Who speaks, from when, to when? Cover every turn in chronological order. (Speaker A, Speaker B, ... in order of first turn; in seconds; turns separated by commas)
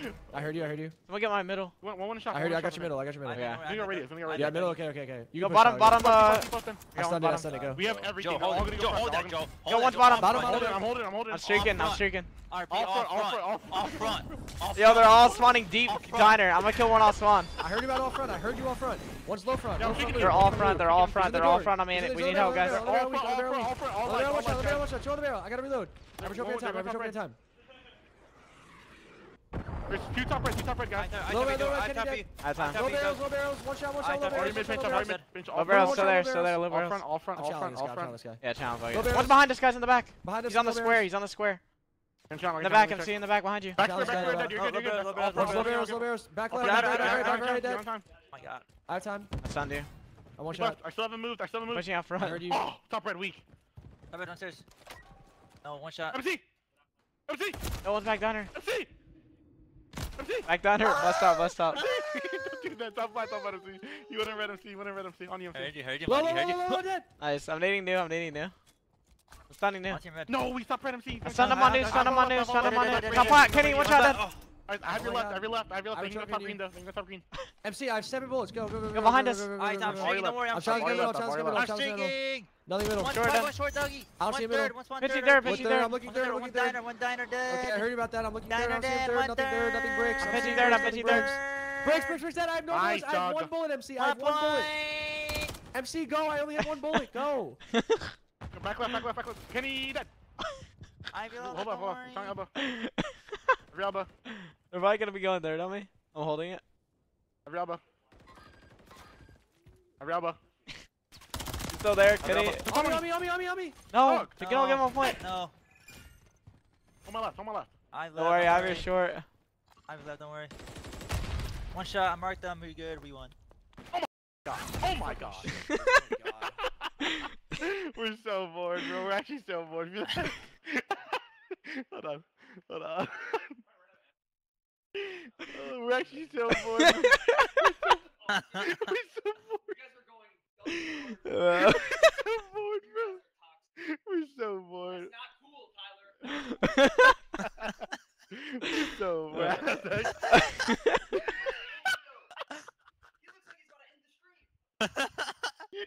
Speaker A: 0.3-1.0, Speaker B: 1.1-1.7, Speaker C: 1.8-3.0, Speaker A: 2.3-3.5, Speaker D: 3.2-4.8, Speaker B: 3.3-3.6, Speaker C: 3.6-4.7, Speaker A: 4.3-6.0, Speaker B: 5.3-7.6, Speaker C: 5.9-6.9, Speaker A: 7.0-7.9, Speaker D: 7.5-10.7, Speaker C: 7.7-9.4, Speaker B: 9.7-12.3, Speaker A: 10.2-10.8, Speaker C: 10.4-11.7, Speaker D: 11.4-17.1, Speaker C: 12.7-14.3, Speaker B: 14.8-17.5, Speaker A: 17.6-27.4, Speaker C: 19.8-21.2, Speaker B: 20.1-22.8, Speaker C: 22.3-24.9, Speaker C: 26.2-27.2, Speaker C: 29.9-31.1, Speaker D: 30.9-33.2, Speaker A: 31.3-36.6, Speaker B: 32.4-32.8, Speaker D: 34.0-35.3, Speaker C: 34.3-38.2, Speaker B: 35.5-37.0, Speaker A: 37.3-39.4, Speaker B: 38.4-41.6, Speaker A: 40.2-41.1, Speaker C: 42.3-43.1, Speaker B: 42.6-43.8, Speaker C: 43.7-48.1, Speaker A: 43.8-44.6, Speaker D: 44.0-45.8, Speaker A: 45.3-47.9, Speaker D: 46.5-47.5, Speaker D: 48.3-48.6, Speaker A: 48.9-49.3, Speaker B: 49.4-49.9, Speaker A: 50.4-50.8, Speaker C: 50.5-51.9, Speaker B: 51.7-52.6, Speaker A: 52.2-52.6, Speaker C: 52.4-53.4, Speaker D: 54.1-54.6, Speaker D: 55.6-56.2, Speaker C: 56.1-56.4, Speaker C: 57.3-57.6, Speaker B: 57.8-58.5, Speaker C: 58.5-58.9, Speaker C: 60.2-60.5, Speaker B: 60.5-61.8, Speaker C: 61.7-65.7, Speaker D: 65.5-66.8, Speaker A: 66.0-67.1, Speaker B: 67.2-68.5, Speaker B: 69.5-70.0, Speaker D: 69.9-70.4, Speaker C: 70.3-77.3, Speaker B: 71.2-74.2, Speaker D: 71.4-74.4, Speaker A: 74.9-76.6, Speaker A: 77.6-83.2, Speaker B: 78.9-79.5, Speaker D: 79.5-87.9, Speaker C: 79.8-81.7, Speaker B: 83.1-83.5, Speaker A: 84.2-84.8, Speaker B: 85.0-85.9, Speaker A: 85.4-86.8, Speaker A: 87.5-94.7, Speaker D: 88.4-92.2, Speaker B: 90.2-91.3, Speaker C: 92.7-93.5, Speaker D: 94.0-95.5, Speaker A: 95.7-97.6, Speaker B: 97.8-98.0, Speaker C: 98.5-100.1, Speaker D: 101.1-102.4, Speaker C: 101.4-102.5, Speaker B: 102.6-103.0, Speaker C: 103.7-104.1, Speaker B: 104.7-106.6, Speaker C: 107.4-107.8, Speaker C: 110.0-110.4, Speaker B: 111.7-112.7, Speaker C: 112.2-113.0, Speaker A: 112.5-113.8, Speaker B: 113.9-115.2, Speaker C: 114.0-114.3, Speaker D: 114.4-115.5, Speaker C: 117.0-117.7, Speaker D: 117.9-118.9, Speaker B: 118.1-119.2, Speaker D: 119.9-120.5, Speaker D: 121.7-123.3, Speaker C: 123.9-125.6, Speaker A: 124.9-126.5, Speaker C: 127.5-133.5, Speaker C: 135.0-138.0, Speaker B: 136.8-137.3, Speaker D: 138.3-138.9, Speaker C: 138.5-139.9, Speaker B: 141.0-142.2, Speaker C: 141.6-143.2, Speaker C: 143.8-145.1, Speaker B: 146.3-147.1, Speaker C: 148.3-150.1, Speaker A: 149.0-150.1